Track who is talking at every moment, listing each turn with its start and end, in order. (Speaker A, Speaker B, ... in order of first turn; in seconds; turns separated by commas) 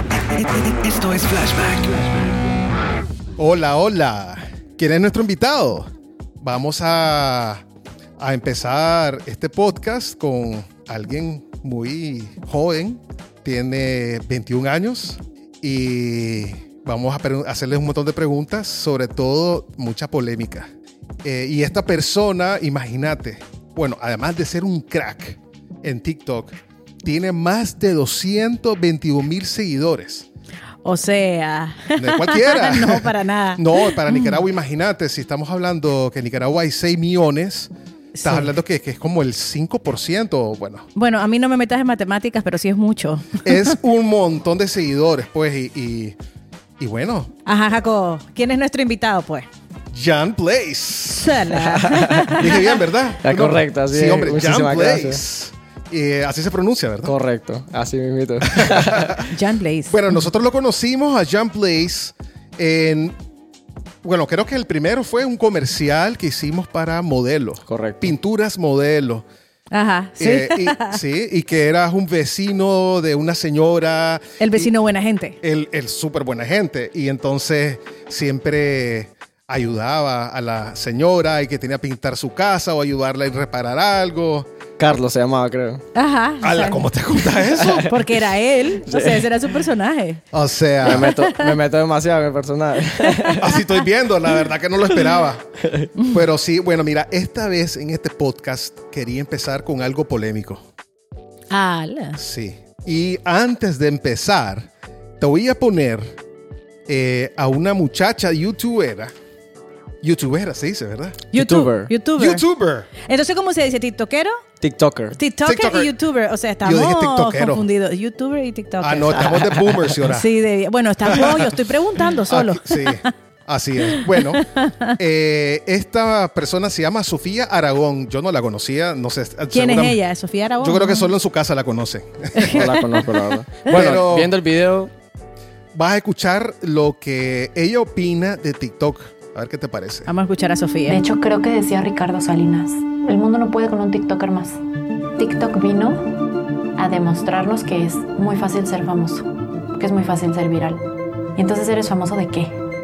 Speaker A: 0.3-2.3, Speaker B: 3.4-5.9, Speaker B: 6.4-7.6, Speaker B: 8.2-20.7, Speaker B: 21.2-30.3, Speaker C: 30.8-34.4, Speaker B: 32.0-37.7, Speaker C: 38.1-38.5, Speaker B: 38.2-40.9, Speaker C: 41.0-43.7, Speaker B: 43.4-46.1, Speaker B: 46.8-47.3, Speaker C: 47.5-49.5, Speaker B: 49.9-51.5, Speaker C: 51.2-52.8, Speaker D: 51.5-52.4, Speaker B: 52.3-57.1, Speaker D: 53.2-55.2, Speaker D: 57.0-59.2, Speaker B: 58.5-59.3, Speaker C: 59.3-60.0, Speaker B: 59.9-63.1, Speaker B: 64.0-69.2, Speaker D: 67.7-68.1, Speaker C: 69.7-71.0, Speaker B: 70.2-74.7, Speaker C: 74.4-75.4, Speaker B: 75.4-84.5, Speaker D: 84.8-85.8, Speaker C: 85.9-90.2, Speaker B: 86.4-88.2, Speaker D: 87.6-87.9, Speaker D: 88.8-89.3, Speaker B: 90.3-91.1, Speaker D: 90.8-93.4, Speaker C: 90.9-91.5, Speaker B: 93.4-100.6, Speaker D: 95.6-95.9, Speaker C: 101.5-102.2, Speaker B: 102.2-106.2, Speaker B: 106.9-109.1, Speaker B: 110.0-111.3, Speaker D: 111.3-111.9, Speaker C: 111.3-112.4, Speaker B: 112.2-112.9, Speaker C: 113.0-114.4, Speaker D: 114.6-115.2, Speaker C: 115.2-119.4, Speaker B: 115.4-115.9, Speaker B: 116.6-117.7, Speaker B: 118.8-120.3, Speaker C: 120.0-123.1, Speaker B: 121.1-121.5, Speaker B: 122.3-130.0, Speaker C: 123.9-124.9, Speaker C: 129.5-131.1, Speaker B: 130.6-133.0, Speaker C: 132.3-133.1, Speaker D: 132.5-134.9, Speaker B: 133.7-134.3, Speaker B: 135.7-140.1, Speaker C: 140.1-141.0, Speaker E: 140.8-144.6, Speaker E: 145.2-146.1, Speaker E: 146.8-150.8, Speaker E: 151.3-152.6